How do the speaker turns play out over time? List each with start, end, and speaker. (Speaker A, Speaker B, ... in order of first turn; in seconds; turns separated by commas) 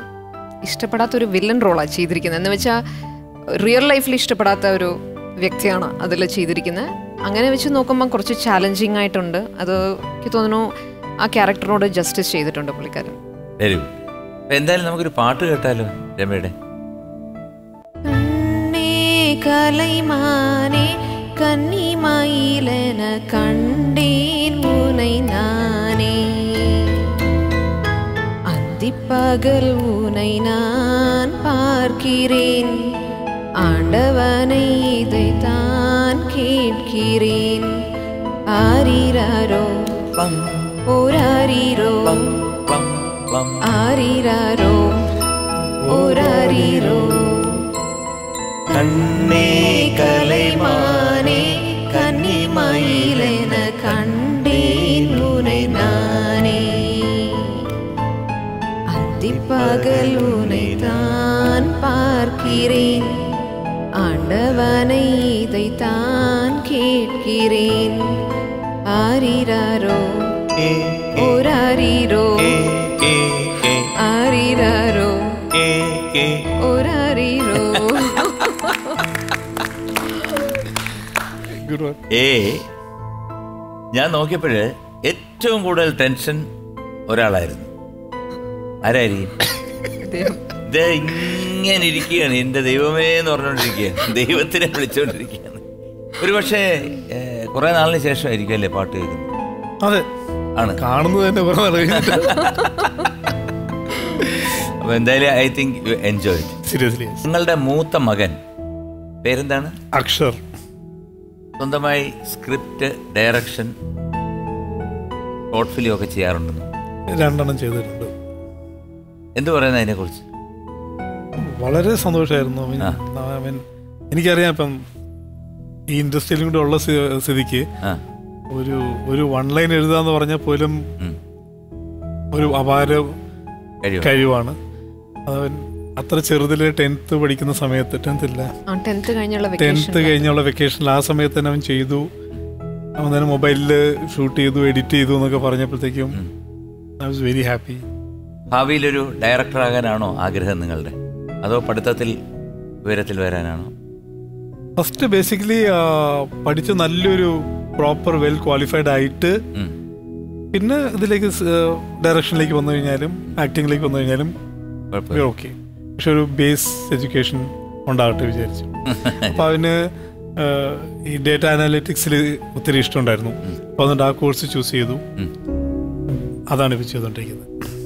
Speaker A: 0.6-2.8, Speaker A: 3.6-10.7, Speaker A: 11.2-13.2, Speaker B: 13.6-13.9, Speaker B: 14.5-16.5, Speaker A: 18.1-27.1, Speaker A: 28.5-32.8, Speaker A: 33.6-37.8, Speaker A: 38.5-39.9, Speaker B: 40.1-40.8, Speaker A: 40.9-42.4, Speaker B: 42.1-43.6, Speaker A: 43.6-45.1, Speaker C: 45.8-47.1, Speaker A: 45.9-47.6, Speaker B: 48.7-56.2, Speaker A: 48.8-57.6, Speaker A: 58.9-63.3, Speaker B: 59.3-61.1, Speaker A: 64.0-68.2, Speaker A: 68.9-70.4, Speaker B: 70.6-71.3, Speaker A: 71.1-72.9, Speaker B: 72.8-73.9, Speaker A: 74.0-75.4, Speaker B: 75.5-76.5, Speaker A: 76.6-79.1, Speaker B: 77.6-78.3, Speaker A: 80.2-80.6, Speaker C: 81.5-82.0, Speaker B: 82.1-82.7, Speaker B: 83.9-86.4, Speaker B: 87.1-87.7, Speaker B: 88.8-89.3, Speaker A: 90.0-90.4, Speaker B: 90.6-95.6, Speaker B: 96.2-99.3, Speaker B: 100.6-100.8, Speaker C: 100.8-102.6, Speaker B: 101.9-103.3, Speaker B: 104.6-106.6, Speaker C: 106.6-107.2, Speaker B: 107.2-108.4, Speaker B: 109.2-109.8, Speaker C: 109.9-110.4, Speaker B: 111.6-113.7, Speaker B: 115.5-116.7, Speaker C: 117.2-118.1, Speaker B: 119.4-120.2, Speaker C: 121.4-124.8, Speaker C: 125.9-127.7, Speaker C: 128.5-130.8, Speaker C: 132.3-133.2, Speaker B: 133.8-134.1, Speaker C: 134.0-134.6, Speaker C: 135.2-138.5, Speaker A: 138.7-140.2, Speaker C: 139.6-142.1, Speaker C: 143.0-146.2, Speaker C: 147.0-147.8, Speaker B: 148.5-152.1, Speaker B: 152.8-153.7, Speaker C: 154.8-159.4, Speaker C: 160.5-164.3, Speaker B: 164.9-165.2, Speaker C: 165.1-175.0, Speaker B: 168.9-169.4, Speaker C: 176.5-177.5